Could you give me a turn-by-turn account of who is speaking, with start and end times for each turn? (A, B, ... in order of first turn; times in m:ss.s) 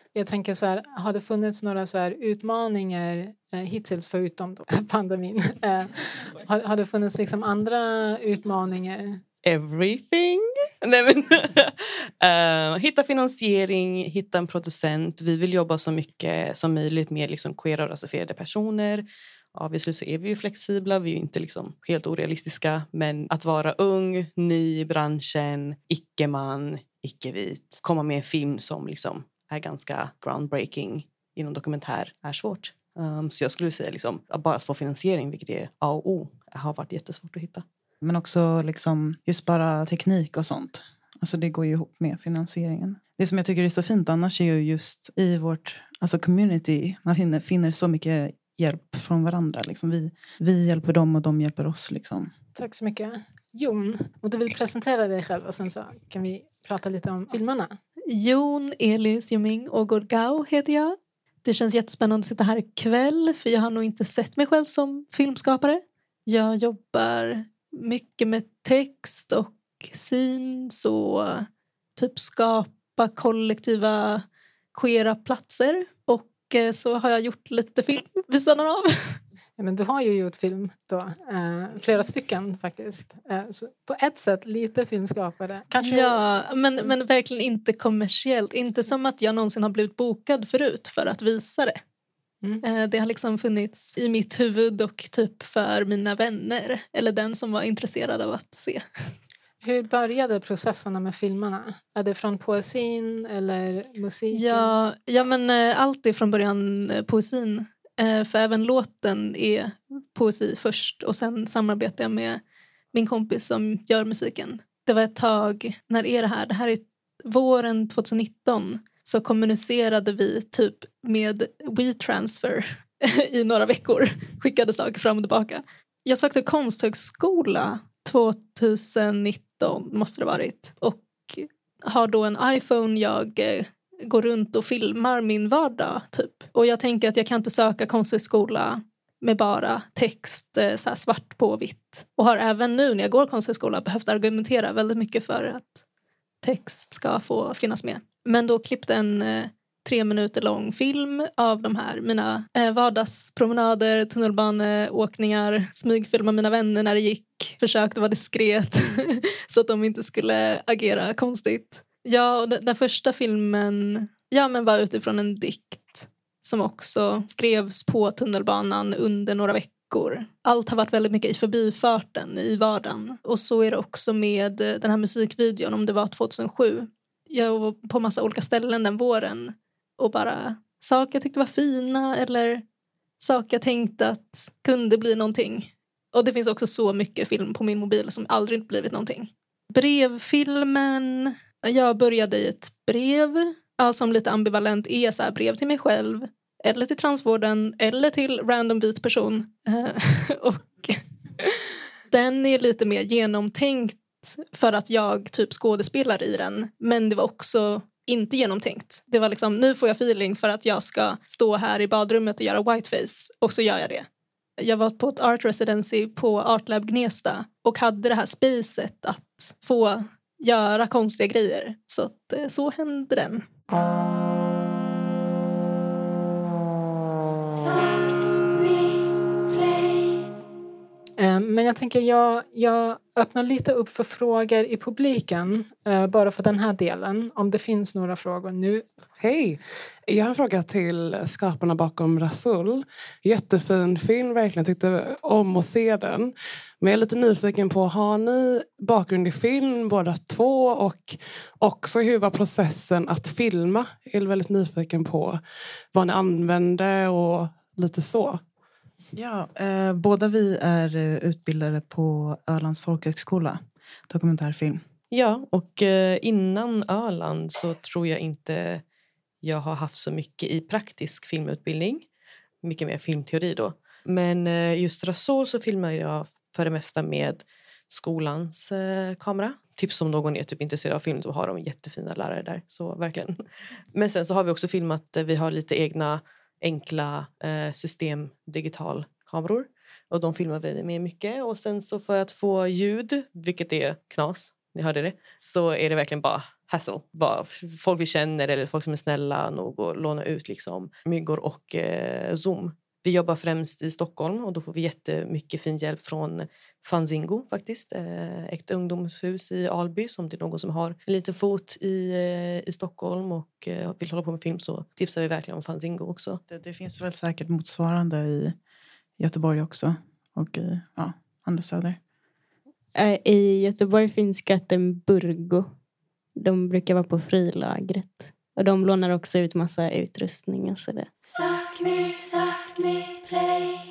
0:00.2-0:09.2 A
0:09.4-0:37.6 B
0:38.0-0:52.3 C
0:52.6-0:57.8 A
0:58.1-1:19.2 D
1:19.6-1:26.2 A
1:25.8-1:31.8 D
1:32.6-1:39.1 D
1:39.6-1:44.7 A
1:44.3-1:52.4 D
1:52.9-2:25.8 D
2:26.4-3:02.6 D
3:03.2-3:34.1 D
3:34.6-3:43.5 D
3:51.2-3:58.8 A
3:59.2-4:18.4 E
4:19.2-4:24.8 C
4:25.1-4:28.8 B
4:29.4-4:32.1 B
4:32.6-4:43.4 B
4:43.9-5:16.4 B
5:16.5-5:18.6 C
5:19.2-5:22.0 C
5:22.9-5:25.7 F
5:26.4-5:33.6 F